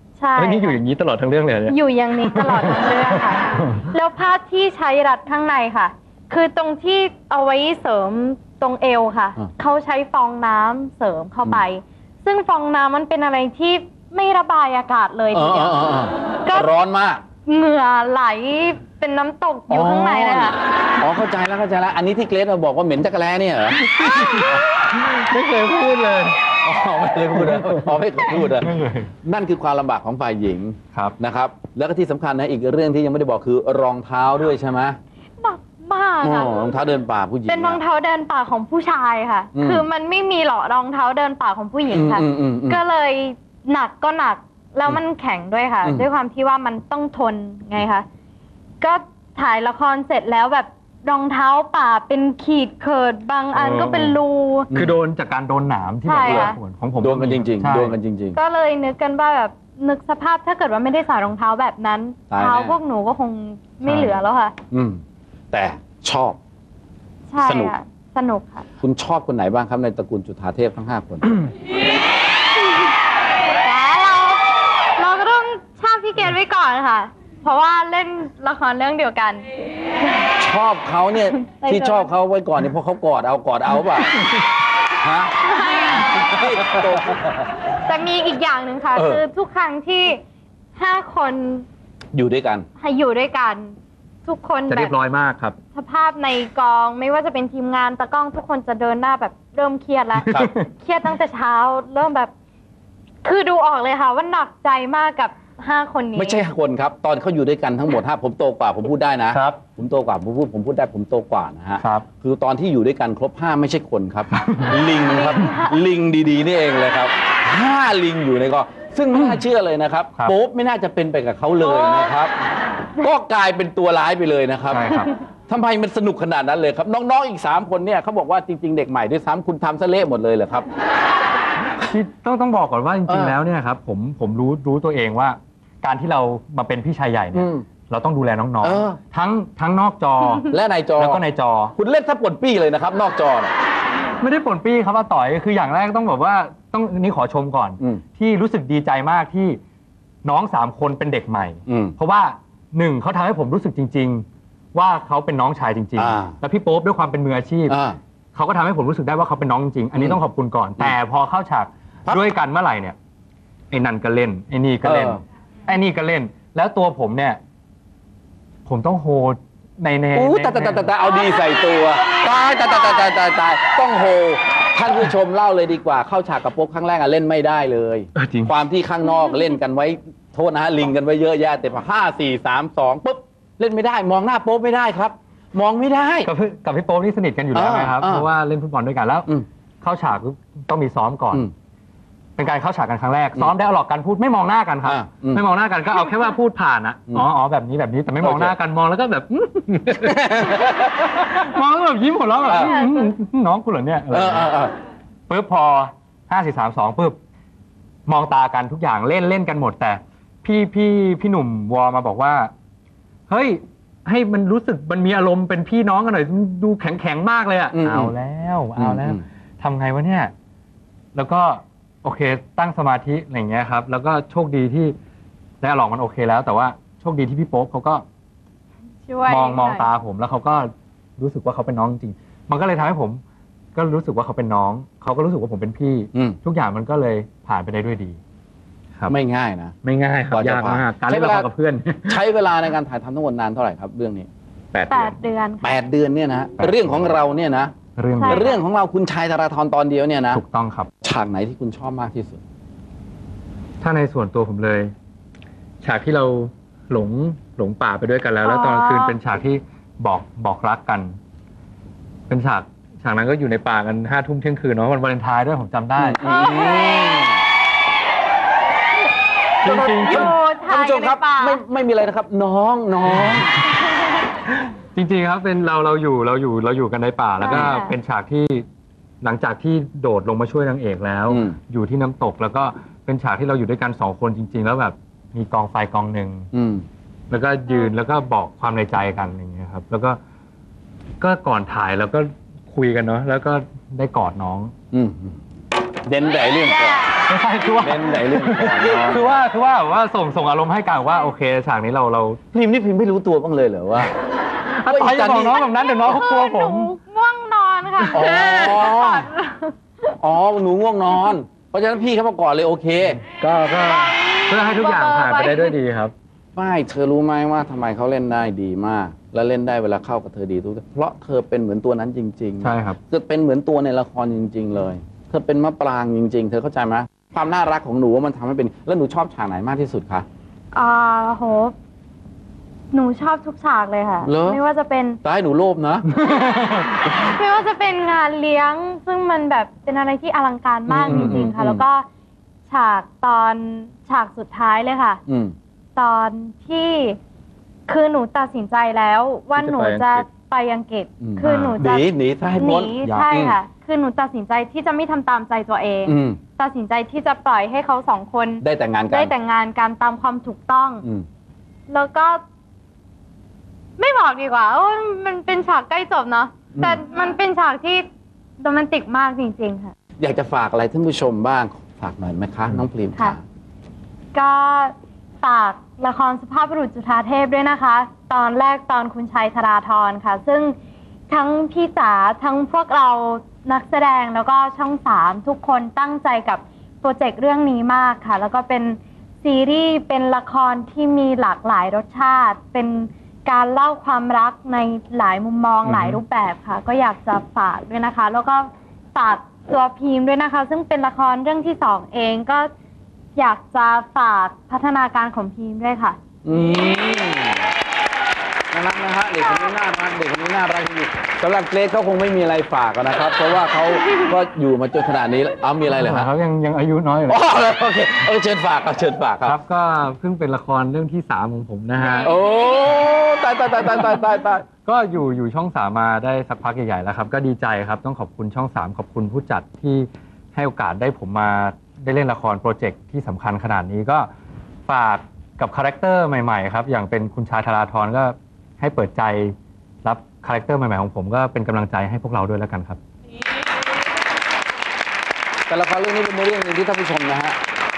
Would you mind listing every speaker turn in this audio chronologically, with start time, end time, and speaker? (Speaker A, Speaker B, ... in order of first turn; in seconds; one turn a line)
Speaker A: 0.2-0.8
Speaker B: 0.4-3.9
Speaker A: 1.7-15.9
Speaker C: 15.3-17.2
Speaker A: 17.4-20.6
Speaker C: 19.7-24.5
Speaker B: 23.9-26.4
Speaker C: 26.5-35.0
Speaker B: 27.4-29.1
Speaker A: 35.4-36.5
Speaker C: 36.2-37.8
Speaker A: 37.5-48.0
Speaker C: 39.5-39.8
Speaker C: 41.9-42.8
Speaker A: 48.8-54.7
Speaker B: 53.5-57.9
Speaker C: 54.7-55.0
Speaker A: 56.0-56.6
Speaker C: 56.2-58.4
Speaker A: 58.3-64.5
Speaker C: 62.3-62.8
Speaker B: 63.8-64.2
Speaker C: 64.7-66.4
Speaker A: 67.3-68.6
Speaker C: 67.4-67.7
Speaker C: 68.8-71.5
Speaker A: 73.6-79.5
Speaker C: 80.4-84.3
Speaker A: 81.4-82.1
Speaker C: 85.0-87.2
Speaker A: 85.5-86.3
Speaker B: 86.4-86.8
Speaker A: 87.8-90.2
Speaker C: 88.9-89.2
Speaker A: 90.7-91.7
Speaker C: 92.1-92.7
Speaker A: 92.8-94.9
Speaker B: 94.7-95.5
Speaker A: 95.7-102.3
Speaker B: 100.2-100.7
Speaker A: 103.2-106.4
Speaker C: 106.2-122.3
Speaker B: 109.3-109.6
Speaker B: 111.8-112.0
Speaker B: 114.3-114.8
Speaker A: 115.0-115.8
Speaker A: 121.6-122.1
Speaker C: 123.0-124.8
Speaker B: 124.7-125.1
Speaker C: 125.5-130.7
Speaker B: 131.7-141.7
Speaker C: 133.1-133.4
Speaker C: 137.3-137.7
Speaker C: 138.6-139.0
Speaker C: 140.5-141.2
Speaker C: 141.8-143.5
Speaker B: 144.2-149.6
Speaker B: 150.2-157.8
Speaker C: 151.7-151.9
Speaker C: 155.9-156.4
Speaker C: 157.7-158.0
Speaker B: 158.3-162.9
Speaker B: 163.7-167.4
Speaker C: 164.8-165.2
Speaker B: 168.7-170.9
Speaker C: 170.1-186.3
Speaker A: 171.1-173.0
Speaker B: 178.2-178.5
Speaker B: 186.2-189.3
Speaker C: 187.5-188.3
Speaker B: 189.8-191.4
Speaker B: 192.4-204.6
Speaker C: 194.8-195.4
Speaker C: 198.2-198.5
Speaker C: 200.1-200.8
Speaker C: 202.5-202.8
Speaker A: 202.5-203.1
Speaker C: 204.1-204.7
Speaker B: 205.3-207.2
Speaker B: 208.1-212.5
Speaker B: 213.3-220.3
Speaker C: 217.7-218.1
Speaker C: 218.8-219.2
Speaker B: 221.1-224.9
Speaker B: 225.6-228.0
Speaker A: 229.0-229.9
Speaker B: 229.3-233.2
Speaker B: 233.7-238.2
Speaker C: 239.1-239.7
Speaker B: 239.8-242.2
Speaker C: 240.3-241.5
Speaker C: 242.1-244.3
Speaker B: 244.7-245.1
Speaker A: 244.9-245.8
Speaker C: 245.6-247.7
Speaker B: 246.6-247.2
Speaker B: 247.9-248.5
Speaker A: 248.2-248.6
Speaker C: 248.3-250.4
Speaker B: 250.3-250.9
Speaker C: 251.0-252.4
Speaker B: 253.8-254.9
Speaker B: 255.8-261.1
Speaker A: 258.4-259.1
Speaker B: 262.3-266.2
Speaker C: 266.0-267.4
Speaker A: 266.2-267.3
Speaker B: 269.6-270.4
Speaker C: 269.6-273.6
Speaker A: 270.0-271.6
Speaker B: 274.9-278.6
Speaker A: 277.4-277.9
Speaker C: 277.4-277.7
Speaker B: 279.2-286.5
Speaker C: 281.3-281.6
Speaker C: 286.5-286.9
Speaker B: 287.3-290.2
Speaker B: 291.2-294.7
Speaker C: 294.9-295.4
Speaker C: 296.1-297.1
Speaker A: 296.6-297.2
Speaker B: 297.2-302.4
Speaker C: 297.8-299.4
Speaker C: 302.5-304.1
Speaker B: 304.7-306.9
Speaker C: 304.9-305.6
Speaker A: 305.5-309.8
Speaker B: 308.0-308.4
Speaker C: 308.1-309.3
Speaker C: 310.2-313.2
Speaker B: 313.4-316.1
Speaker A: 314.1-315.7
Speaker C: 316.6-330.2
Speaker B: 322.6-323.0
Speaker A: 330.7-331.7
Speaker A: 332.9-335.2
Speaker C: 334.2-334.6
Speaker C: 335.2-336.1
Speaker B: 336.2-336.9
Speaker A: 337.0-342.1
Speaker C: 340.9-341.8
Speaker B: 340.9-341.5
Speaker A: 342.7-345.2
Speaker C: 345.3-345.5
Speaker A: 345.9-347.2
Speaker A: 347.9-361.0
Speaker B: 349.6-350.2
Speaker C: 351.2-353.6
Speaker B: 351.4-351.8
Speaker B: 352.5-353.3
Speaker C: 356.0-356.4
Speaker C: 358.6-359.3
Speaker A: 361.9-362.4
Speaker A: 364.0-368.0
Speaker C: 366.7-367.0
Speaker A: 368.6-369.9
Speaker C: 370.2-373.4
Speaker A: 374.3-380.8
Speaker A: 381.3-402.7
Speaker B: 395.8-396.2
Speaker A: 403.4-406.2
Speaker C: 406.4-407.7
Speaker C: 408.7-416.3
Speaker B: 415.8-417.4
Speaker C: 417.3-419.6
Speaker B: 419.4-422.4
Speaker C: 422.2-424.7
Speaker B: 424.8-434.3
Speaker B: 434.9-443.0
Speaker C: 445.7-447.6